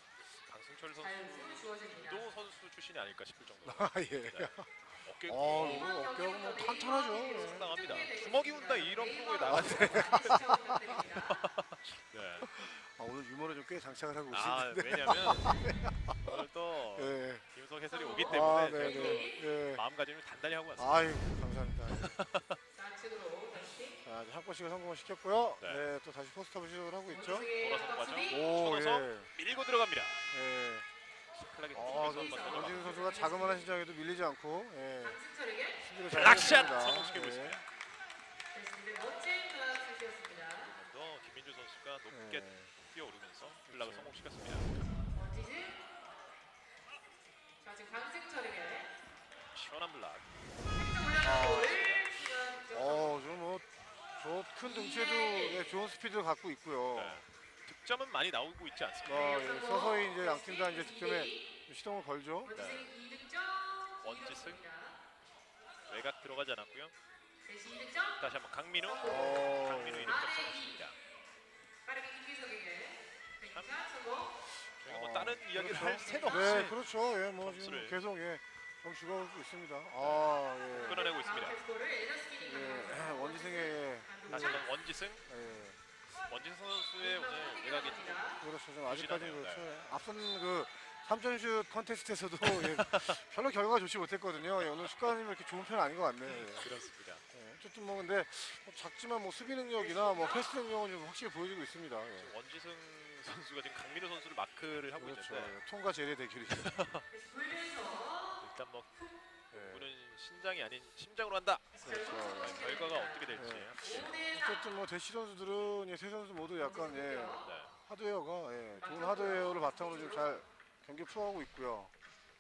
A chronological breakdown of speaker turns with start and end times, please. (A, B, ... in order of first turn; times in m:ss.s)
0:00.4-0:04.5 A
0:01.0-0:02.3 B
0:03.6-0:07.7 C
0:05.0-0:05.9 A
0:05.5-0:11.4 B
0:07.2-0:10.4 A
0:09.5-0:11.0 C
0:11.0-0:12.5 A
0:12.4-0:17.4 C
0:14.3-0:15.6 A
0:16.2-0:21.2 A
0:17.9-0:19.4 B
0:18.2-0:19.8 C
0:20.8-0:22.2 C
0:21.9-0:22.6 A
0:22.7-0:24.0 B
0:24.0-0:27.5 C
0:25.6-0:25.9 A
0:27.1-0:28.5 B
0:27.6-0:30.2 A
0:28.3-0:29.3 C
0:30.3-0:30.9 C
0:31.3-0:33.0 A
0:31.7-0:35.2 C
0:31.8-0:33.7 B
0:35.0-0:35.8 B
0:35.8-0:37.6 C
0:36.1-0:37.6 A
0:38.5-0:40.7 B
0:40.5-0:44.7 A
0:42.1-0:42.7 C
0:43.7-0:44.2 C
0:45.1-0:45.8 B
0:47.6-0:48.9 B
0:49.5-0:50.3 A
0:50.7-0:53.2 B
0:51.2-0:51.8 C
0:51.3-0:52.2 A
0:52.7-0:57.2 C
0:54.6-0:55.7 B
0:56.9-0:59.5 A
0:59.0-1:02.5 C
0:59.1-1:01.5 B
1:02.4-1:05.0 B
1:02.5-1:02.9 A
1:04.0-1:04.6 A
1:05.9-1:06.9 A
1:07.5-1:08.2 B
1:08.2-1:11.0 A
1:08.8-1:10.8 B
1:09.0-1:10.2 C
1:11.8-1:14.4 B
1:13.5-1:13.8 A
1:14.7-1:21.1 C
1:14.8-1:16.8 A
1:16.1-1:16.6 B
1:17.4-1:18.0 A
1:20.0-1:21.6 A
1:20.7-1:24.6 B
1:22.4-1:24.6 C
1:24.3-1:25.3 A
1:25.3-1:25.8 C
1:26.2-1:29.7 A
1:27.0-1:28.4 B
1:28.4-1:36.7 C
1:32.4-1:33.2 A
1:36.3-1:37.2 A
1:37.3-1:42.3 C
1:39.8-1:40.5 B
1:42.2-1:45.6 A
1:45.0-1:46.8 C
1:46.5-1:47.1 A
1:47.1-1:49.1 B
1:48.4-1:48.9 A
1:49.5-1:49.9 C
1:49.5-1:54.2 A
1:51.7-1:54.6 B
1:51.8-1:52.6 C
1:53.4-2:01.9 C
1:56.6-1:57.5 B
1:57.4-1:57.7 A
1:58.8-2:00.4 B